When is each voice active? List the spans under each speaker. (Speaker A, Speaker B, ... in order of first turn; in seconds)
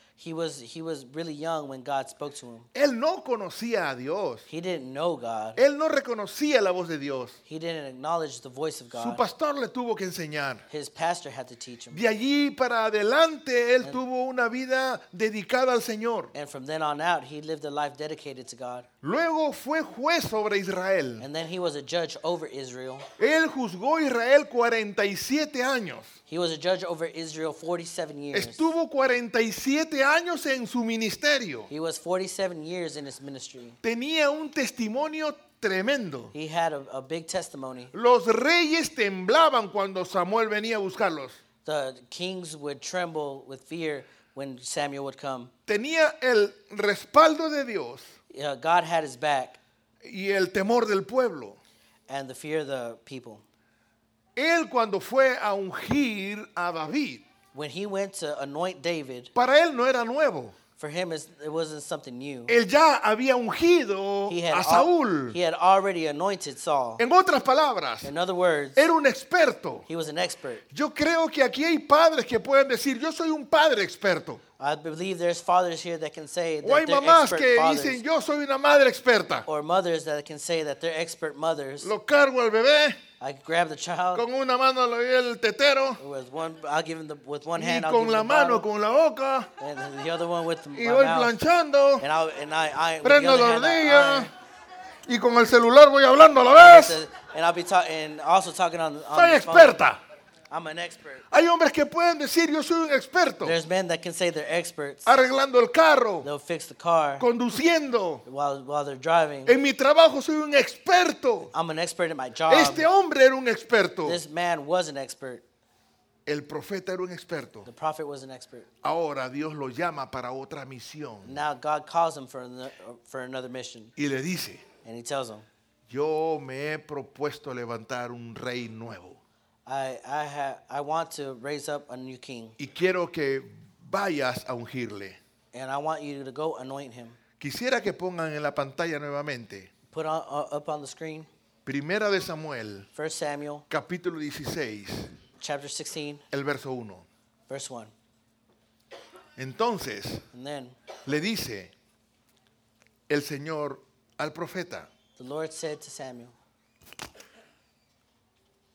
Speaker A: 0.2-2.7, 4.5-5.6, 7.5-9.2, 10.7-12.0, 16.3-18.9, 21.2-23.1, 26.3-28.7, 31.7-33.8, 36.3-37.9, 41.6-45.5, 48.3-49.6, 52.1-53.5, 57.5-59.3, 60.8-62.6, 64.3-67.0, 68.0-68.9, 69.9-70.7, 74.6-78.0, 79.5-81.9, 83.2-84.2, 86.0-88.7, 89.6-91.3, 92.0-94.3, 96.5-99.8, 100.5-101.2, 103.4-105.1, 106.2-107.3, 108.3-109.6, 111.5-112.9, 114.0-115.4, 117.7-118.7, 121.2-123.9, 124.8-125.5, 129.7-132.6, 135.5-137.2, 139.9-141.3, 142.9-143.7, 145.4-146.2, 147.5-147.9, 150.3-150.8, 155.2-156.3
Speaker B: 2.8-4.5, 5.6-7.4, 8.9-10.7, 11.9-16.3, 19.0-21.3, 23.2-26.1, 28.3-31.7, 33.8-36.3, 37.9-41.4, 45.7-48.1, 50.0-51.6, 54.4-57.2, 59.4-60.6, 62.5-65.4, 67.0-68.1, 68.8-69.9, 70.7-74.4, 76.6-79.5, 81.8-83.0, 84.2-86.0, 87.6-89.5, 90.8-92.1, 93.0-94.3, 95.1-97.0, 99.1-100.0, 101.3-103.6, 105.1-106.3, 107.2-108.2, 109.5-111.5, 112.5-114.2, 116.3-117.7, 118.8-121.5, 124.0-124.6, 125.9-129.2, 132.6-135.2, 137.4-139.7, 141.7-142.9, 143.7-145.2, 146.3-147.1, 149.4-150.3, 151.1-151.7, 153.1-154.9